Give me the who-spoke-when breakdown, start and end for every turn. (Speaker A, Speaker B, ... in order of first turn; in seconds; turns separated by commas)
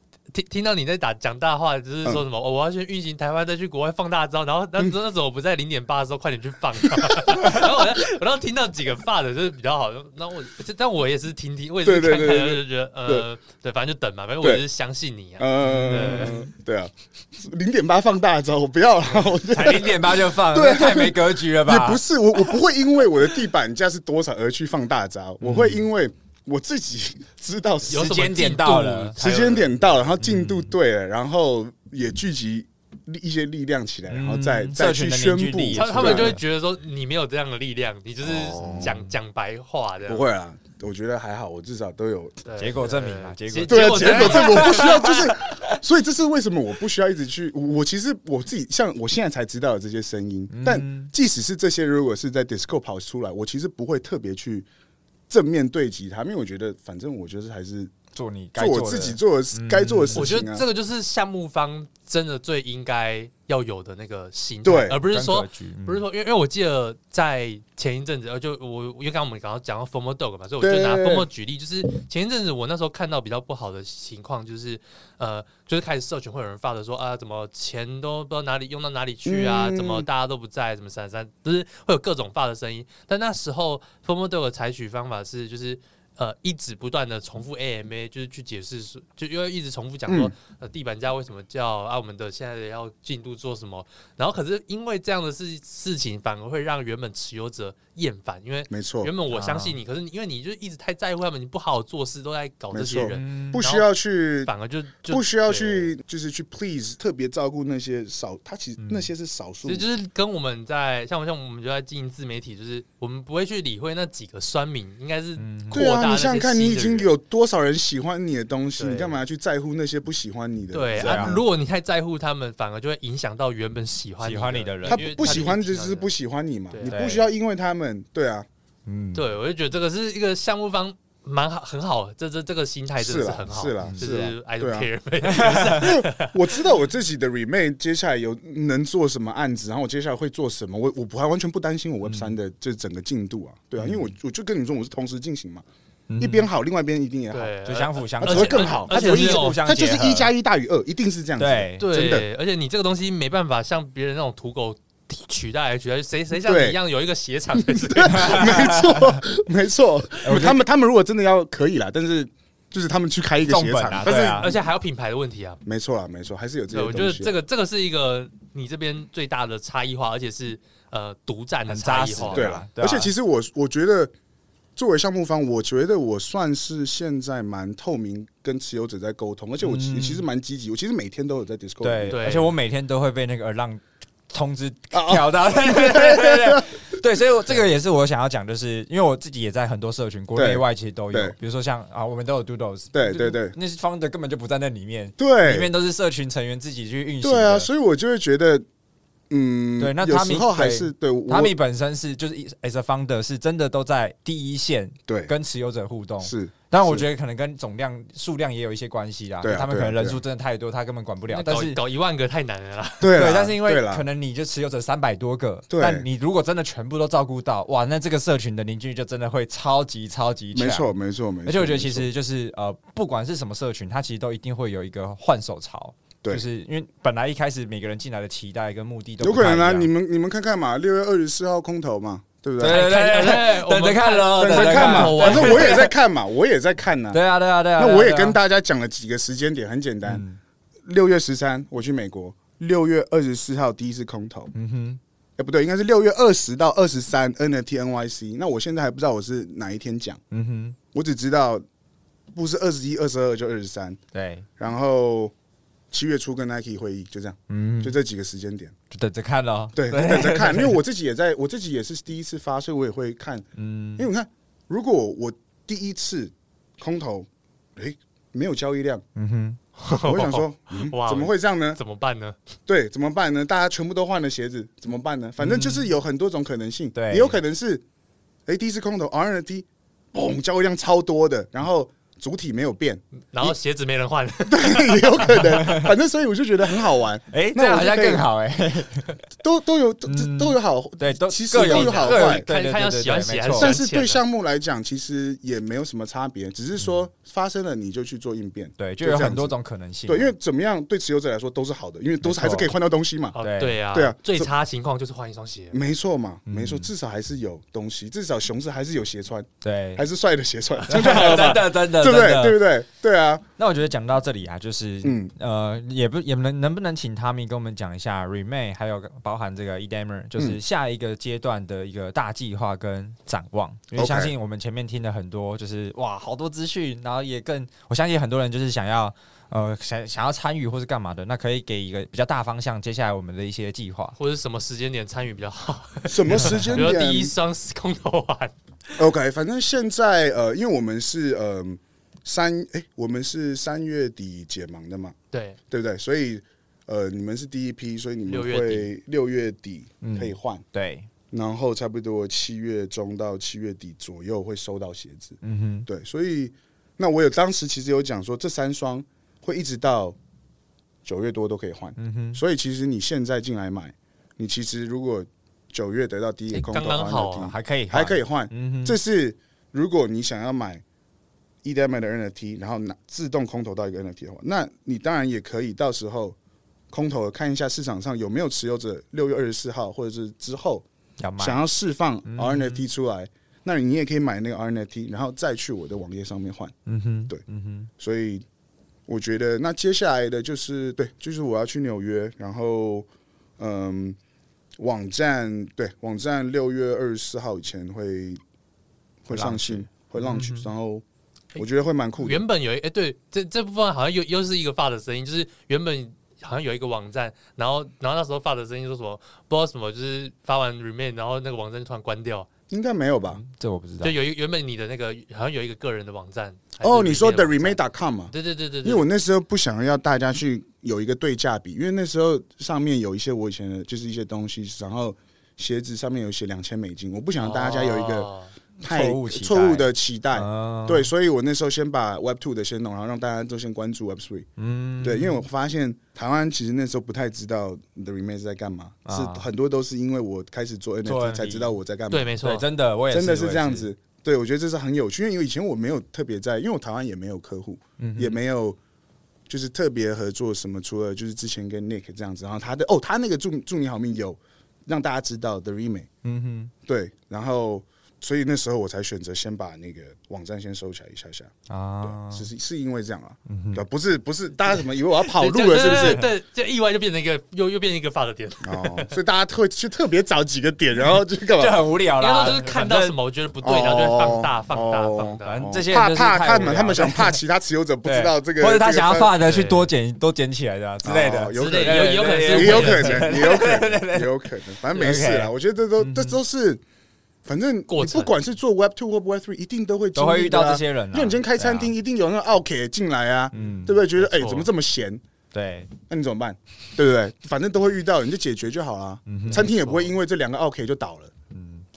Speaker A: 0.3-16.4, Speaker B: 11.8-13.2, Speaker B: 15.4-28.2, Speaker C: 15.6-16.4, Speaker C: 19.5-22.5, Speaker C: 25.4-25.8, Speaker A: 27.9-29.8, Speaker C: 28.0-29.1, Speaker B: 29.2-36.4, Speaker C: 30.2-30.7, Speaker C: 34.1-36.4, Speaker A: 35.7-40.2, Speaker B: 38.2-39.0, Speaker C: 38.6-39.1, Speaker B: 40.0-42.4, Speaker A: 42.4-45.1, Speaker C: 42.6-45.6, Speaker B: 43.7-54.6, Speaker C: 50.5-51.1, Speaker B: 55.3-57.9, Speaker C: 58.1-60.3, Speaker B: 58.5-60.6, Speaker A: 60.1-103.9, Speaker B: 64.6-65.0, Speaker C: 64.9-66.0, Speaker B: 70.6-71.3, Speaker B: 79.2-80.0, Speaker B: 90.1-90.3, Speaker B: 98.7-99.1, Speaker C: 99.3-99.8, Speaker B: 102.7-104.5, Speaker C: 103.1-103.6, Speaker A: 104.5-105.9, Speaker B: 105.1-109.8, Speaker C: 108.8-109.1, Speaker A: 109.6-117.1, Speaker C: 115.4-115.8, Speaker B: 115.7-121.4, Speaker A: 118.8-119.2, Speaker A: 120.7-126.1, Speaker C: 121.0-121.4, Speaker C: 124.2-125.4, Speaker B: 124.9-128.4, Speaker C: 126.8-127.3, Speaker C: 128.8-129.2, Speaker A: 129.1-136.6, Speaker B: 133.0-134.9, Speaker C: 135.2-135.9, Speaker B: 135.6-145.6, Speaker C: 142.0-142.3, Speaker C: 143.8-144.1, Speaker C: 146.1-146.5, Speaker B: 146.2-147.5, Speaker A: 147.3-149.6, Speaker C: 147.6-150.3, Speaker B: 148.2-152.3, Speaker C: 151.4-151.9, Speaker A: 151.8-158.4, Speaker B: 156.4-156.8, Speaker B: 157.6-164.6, Speaker C: 158.0-159.2, Speaker C: 160.2-160.6, Speaker C: 163.4-164.5, Speaker A: 164.0-165.6, Speaker B: 165.6-167.3, Speaker A: 166.7-172.6, Speaker C: 171.7-173.1, Speaker B: 172.3-174.1, Speaker B: 174.8-182.2, Speaker C: 179.6-180.2, Speaker C: 181.8-197.7, Speaker A: 182.1-182.5, Speaker B: 184.9-186.9, Speaker B: 190.3-191.3, Speaker B: 192.9-193.6, Speaker B: 195.2-195.7, Speaker B: 197.2-198.6, Speaker B: 199.3-201.5, Speaker C: 199.8-211.8, Speaker B: 205.1-205.3, Speaker B: 206.2-207.1, Speaker B: 209.4-210.2, Speaker A: 211.3-213.2, Speaker B: 213.0-214.0, Speaker C: 213.1-220.9, Speaker B: 215.7-216.0, Speaker B: 220.5-222.1, Speaker C: 221.4-229.9, Speaker B: 229.2-233.3, Speaker C: 232.6-235.9, Speaker A: 232.6-235.8, Speaker B: 234.3-237.2, Speaker C: 237.1-238.4, Speaker B: 237.8-240.2, Speaker C: 240.0-240.4, Speaker B: 240.8-244.5, Speaker C: 244.5-245.0, Speaker B: 245.4-250.2, Speaker C: 250.3-250.8, Speaker B: 250.9-251.6, Speaker B: 252.3-254.0, Speaker C: 254.1-254.5, Speaker B: 254.6-255.3, Speaker B: 255.9-258.7, Speaker C: 257.5-258.0, Speaker C: 258.9-260.8, Speaker B: 259.7-263.4, Speaker C: 263.5-264.1, Speaker B: 264.0-269.0, Speaker C: 269.1-269.6, Speaker A: 269.8-272.4, Speaker B: 269.9-271.8, Speaker B: 272.7-277.8, Speaker C: 275.4-275.9, Speaker C: 276.9-277.4, Speaker B: 278.5-283.5, Speaker A: 283.3-285.8, Speaker B: 284.5-288.2, Speaker C: 285.6-285.9, Speaker C: 287.3-289.1, Speaker B: 289.4-292.5, Speaker C: 290.1-293.8, Speaker A: 291.5-294.2, Speaker B: 293.6-299.5, Speaker C: 298.8-300.3, Speaker B: 300.1-303.4, Speaker C: 302.2-302.7, Speaker A: 303.3-305.9, Speaker C: 303.4-303.8, Speaker B: 303.9-304.5, Speaker B: 305.7-313.4, Speaker C: 306.5-306.9, Speaker C: 309.6-310.0, Speaker C: 310.8-312.7, Speaker C: 313.6-334.1, Speaker B: 315.0-315.3, Speaker B: 323.9-324.3, Speaker A: 334.2-338.5, Speaker B: 336.1-337.3, Speaker B: 339.0-345.1, Speaker A: 345.3-345.6, Speaker B: 345.7-350.6, Speaker A: 348.3-348.9, Speaker C: 350.0-351.1, Speaker B: 351.3-360.1, Speaker C: 355.4-355.9, Speaker B: 361.0-370.8, Speaker C: 362.0-362.4, Speaker A: 366.5-367.5, Speaker C: 367.5-369.0, Speaker B: 371.6-376.4, Speaker B: 376.9-380.8, Speaker C: 381.2-381.6, Speaker B: 381.4-386.7, Speaker C: 382.2-382.9, Speaker C: 386.9-387.9, Speaker B: 388.0-388.4, Speaker B: 389.1-393.1, Speaker B: 393.6-394.1, Speaker B: 394.8-398.4, Speaker B: 399.2-401.0, Speaker C: 399.3-400.7, Speaker B: 401.5-402.4, Speaker A: 402.2-412.5, Speaker B: 412.7-413.4, Speaker C: 413.3-414.2, Speaker A: 414.0-419.0, Speaker B: 416.8-418.3, Speaker B: 418.8-428.3, Speaker A: 427.4-428.5, Speaker B: 428.8-434.4, Speaker C: 428.8-431.1, Speaker C: 434.6-435.4, Speaker B: 435.0-442.3, Speaker C: 439.0-439.4, Speaker C: 441.0-441.7, Speaker A: 442.1-442.6, Speaker C: 442.4-443.9, Speaker B: 443.1-448.8, Speaker C: 448.0-448.4, Speaker B: 449.5-456.1, Speaker C: 456.2-456.7, Speaker B: 456.9-466.2, Speaker C: 461.7-462.5, Speaker C: 463.5-463.8, Speaker A: 465.1-469.1, Speaker C: 465.8-466.3, Speaker B: 468.6-471.8, Speaker C: 471.6-473.2, Speaker A: 472.2-475.6, Speaker B: 473.6-479.3, Speaker C: 475.4-477.4, Speaker C: 478.0-486.4, Speaker A: 479.4-479.9, Speaker B: 481.0-486.8, Speaker A: 481.5-483.4, Speaker B: 487.4-495.2, Speaker A: 487.9-488.3, Speaker C: 490.1-491.9, Speaker C: 493.5-494.0, Speaker A: 494.1-494.7, Speaker C: 495.5-495.9, Speaker B: 496.1-501.3, Speaker C: 499.3-499.7, Speaker A: 499.4-500.2, Speaker C: 501.5-501.9